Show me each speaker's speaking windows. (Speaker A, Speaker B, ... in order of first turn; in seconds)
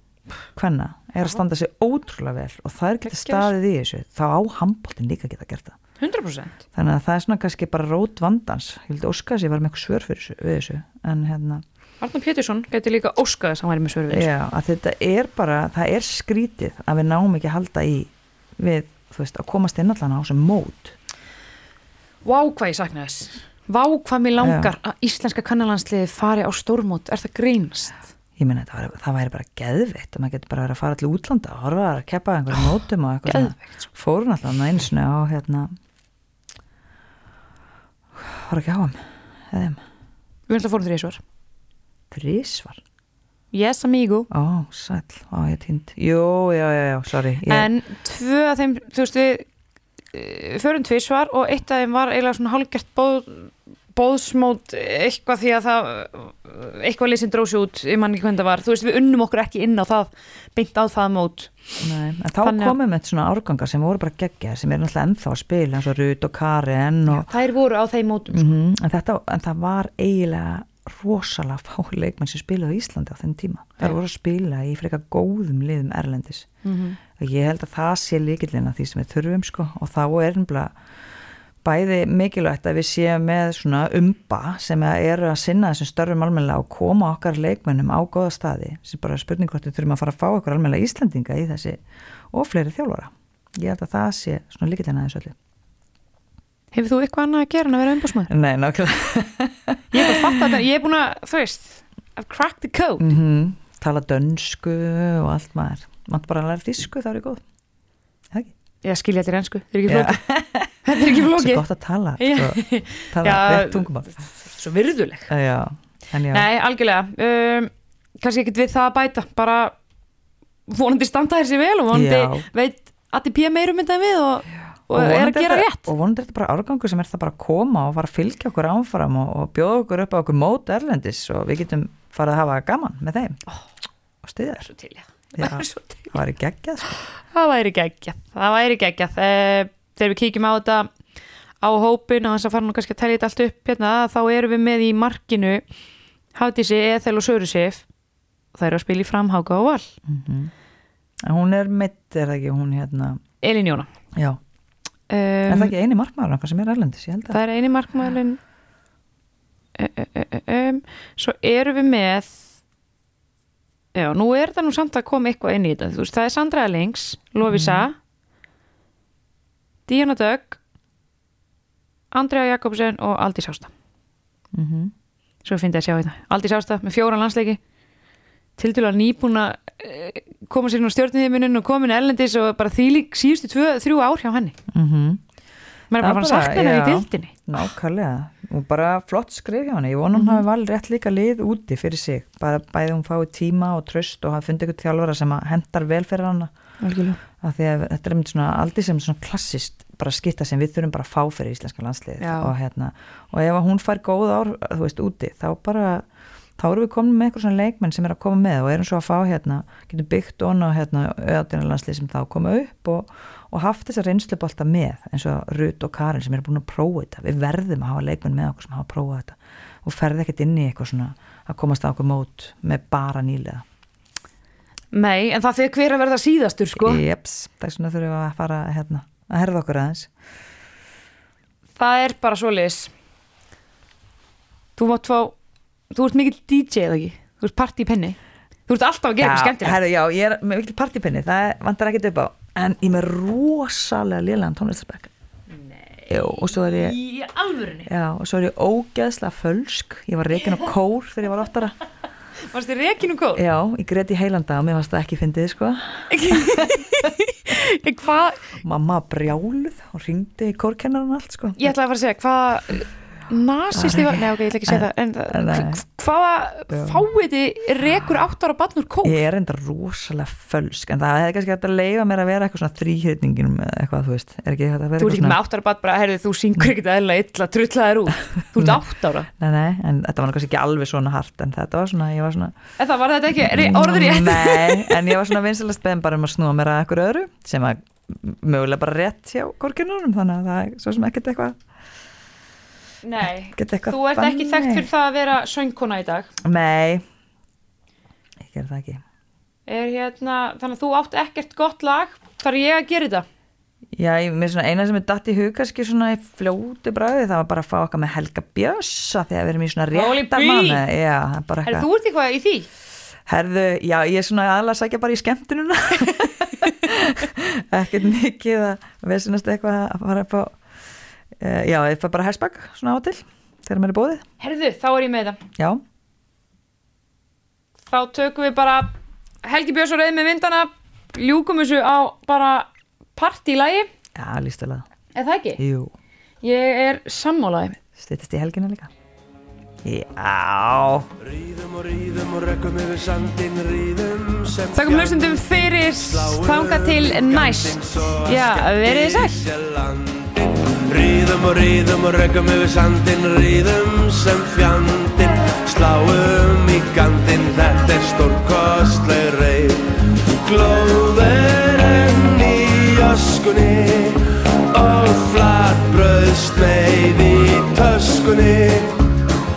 Speaker A: 0.5-5.8, 6.7-11.6, 14.1-21.0, 24.4-24.8, 28.4-35.7, 38.1-39.8, 42.1-42.8, 44.3-47.7, 61.8-67.3, 68.3-76.5, 77.2-80.7, 81.6-95.3, 98.3-100.2, 103.0-107.4, 109.9-114.2, 115.3-116.5, 121.9-122.5, 124.9-133.4, 134.2-134.7, 135.4-136.9, 150.1-150.5, 151.2-153.2, 154.1-154.4, 155.5-157.4, 167.5-167.9, 174.5-174.9, 184.7-185.2, 186.0-196.5, 197.3-206.1, 206.6-223.6, 226.8-230.1, 239.2-245.1, 246.1-247.0, 247.9-251.8, 253.4-257.1, 258.6-261.7, 263.7-265.8, 266.7-267.0, 269.0-275.4, 278.6-282.6, 283.4-291.6, 293.5-294.9, 296.4-297.0, 298.4-299.0, 303.9-311.9, 313.3-320.6, 321.4-324.3, 325.6-325.8, 334.1-334.9, 335.6-335.9, 338.0-338.9, 339.8-341.1
Speaker B: 3.1-3.5, 6.0-6.6, 12.0-14.3, 22.2-28.0, 33.3-33.7, 40.5-41.2, 43.5-44.3, 47.5-49.5, 50.1-61.5, 62.4-62.8, 67.1-68.5, 76.6-77.0, 96.7-98.3, 99.9-103.1, 108.8-110.3, 110.8-111.6, 112.2-115.3, 116.3-119.8, 120.7-125.9, 134.6-136.2, 136.8-140.9, 141.6-145.6, 146.3-147.9, 148.5-149.9, 153.4-153.9, 155.1-155.7, 157.3-158.4, 159.8-162.5, 163.9-167.9, 169.9-170.6, 172.1-173.7, 175.4-177.6, 178.6-184.6, 185.9-187.4, 190.1-190.4, 196.8-197.2, 202.2-202.5, 224.9-227.0, 231.8-232.9, 234.8-235.4, 235.9-239.8, 245.5-247.9, 252.5-253.4, 256.1-258.6, 261.6-269.2, 275.0-279.3, 282.8-285.0, 293.0-296.3, 299.7-303.3, 309.9-310.8, 311.6-312.7, 324.4-325.4, 327.9-328.9, 329.4-333.9, 335.1-335.6, 336.4-337.8, 344.7-349.5
Speaker C: 341.2-369.1